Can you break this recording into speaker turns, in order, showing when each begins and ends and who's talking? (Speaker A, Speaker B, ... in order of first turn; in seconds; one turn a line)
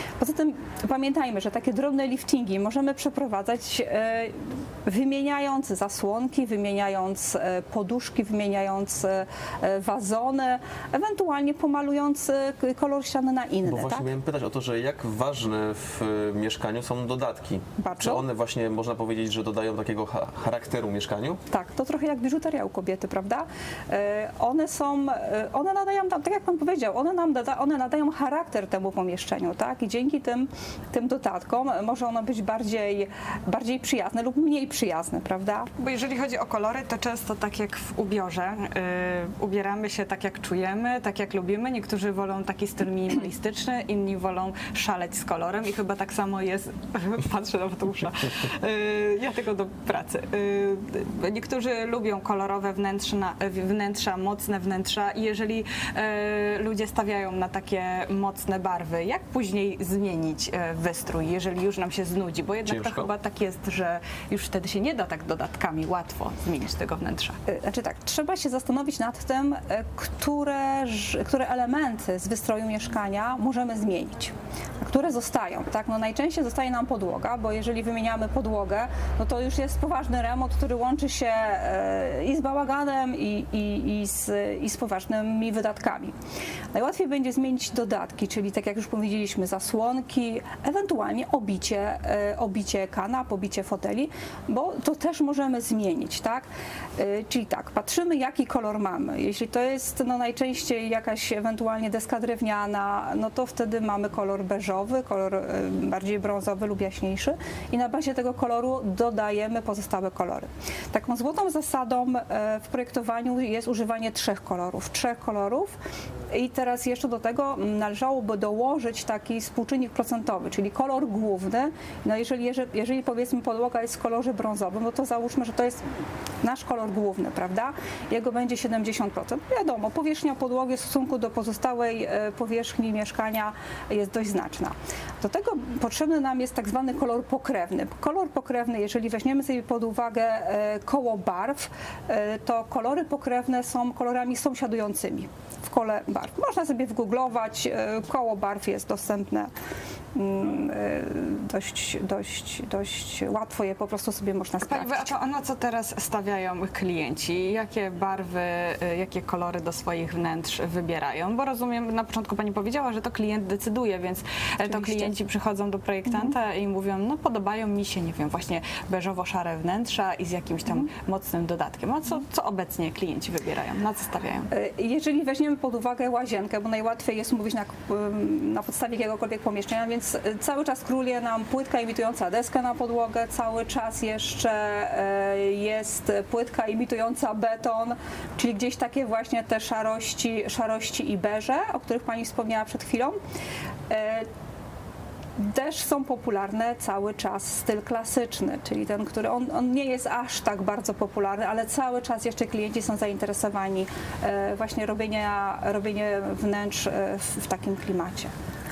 Speaker A: 0.2-14.1
Speaker B: 13.6-21.4
Speaker A: 17.8-18.2
Speaker A: 21.5-35.7
Speaker C: 35.8-67.4
Speaker B: 62.6-63.1
Speaker A: 67.5-86.1
Speaker A: 86.7-115.8
Speaker A: 116.3-125.8
Speaker A: 126.4-149.5
Speaker A: 150.1-155.1
Speaker C: 154.6-174.5
Speaker A: 164.6-165.2
Speaker A: 166.1-166.3
Speaker A: 174.5-193.2
Speaker A: 193.9-194.3
Speaker A: 195.4-208.3